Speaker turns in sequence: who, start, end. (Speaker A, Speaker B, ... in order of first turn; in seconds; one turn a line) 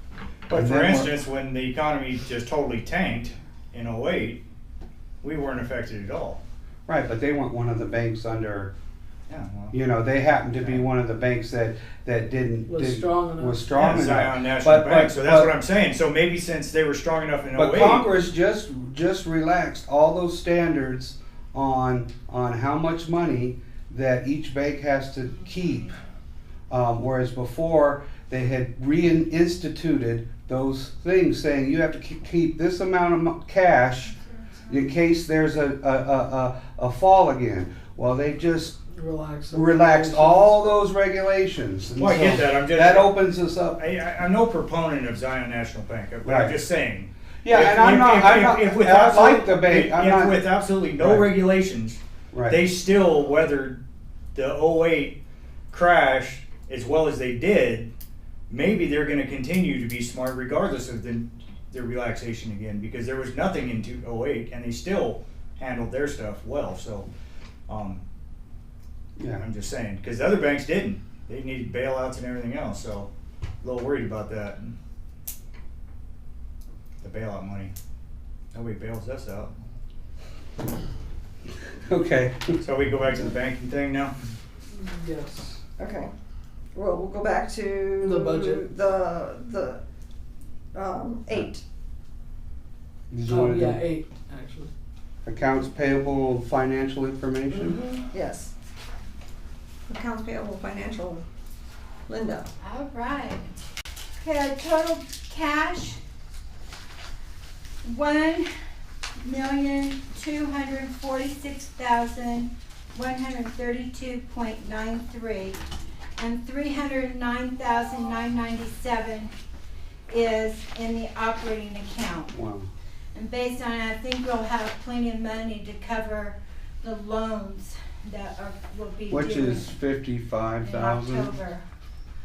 Speaker A: 0.5-4.4
Speaker B: 0.5-1.1
Speaker A: 5.2-6.4
Speaker B: 6.9-8.7
Speaker A: 9.3-9.8
Speaker B: 9.7-15.5
Speaker A: 10.6-10.8
Speaker C: 12.7-13.8
Speaker A: 13.7-18.1
Speaker B: 17.5-26.0
Speaker B: 26.7-34.1
Speaker B: 34.7-38.8
Speaker C: 38.9-40.6
Speaker B: 39.5-43.8
Speaker A: 42.0-43.2
Speaker A: 43.8-53.8
Speaker B: 46.2-46.5
Speaker B: 47.4-50.5
Speaker B: 51.0-51.3
Speaker B: 52.3-52.6
Speaker A: 54.3-55.2
Speaker A: 55.7-57.9
Speaker A: 58.5-67.1
Speaker A: 67.7-68.0
Speaker B: 69.2-69.4
Speaker A: 69.4-73.1
Speaker A: 73.6-74.7
Speaker A: 77.0-77.7
Speaker A: 78.5-79.5
Speaker B: 81.8-82.6
Speaker A: 82.6-84.1
Speaker C: 84.7-85.5
Speaker D: 85.8-86.1
Speaker D: 86.7-89.8
Speaker C: 88.0-88.7
Speaker D: 90.7-91.6
Speaker B: 93.1-93.8
Speaker C: 93.3-94.7
Speaker B: 95.2-97.8
Speaker C: 97.5-98.0
Speaker D: 98.1-98.5
Speaker D: 99.9-101.2
Speaker D: 102.1-102.5
Speaker E: 102.6-103.5
Speaker E: 104.2-106.0
Speaker E: 107.8-108.5
Speaker E: 109.2-115.6
Speaker E: 116.2-119.3
Speaker E: 120.1-122.3
Speaker B: 122.3-122.7
Speaker E: 123.1-129.7
Speaker B: 129.1-131.3
Speaker E: 130.6-131.6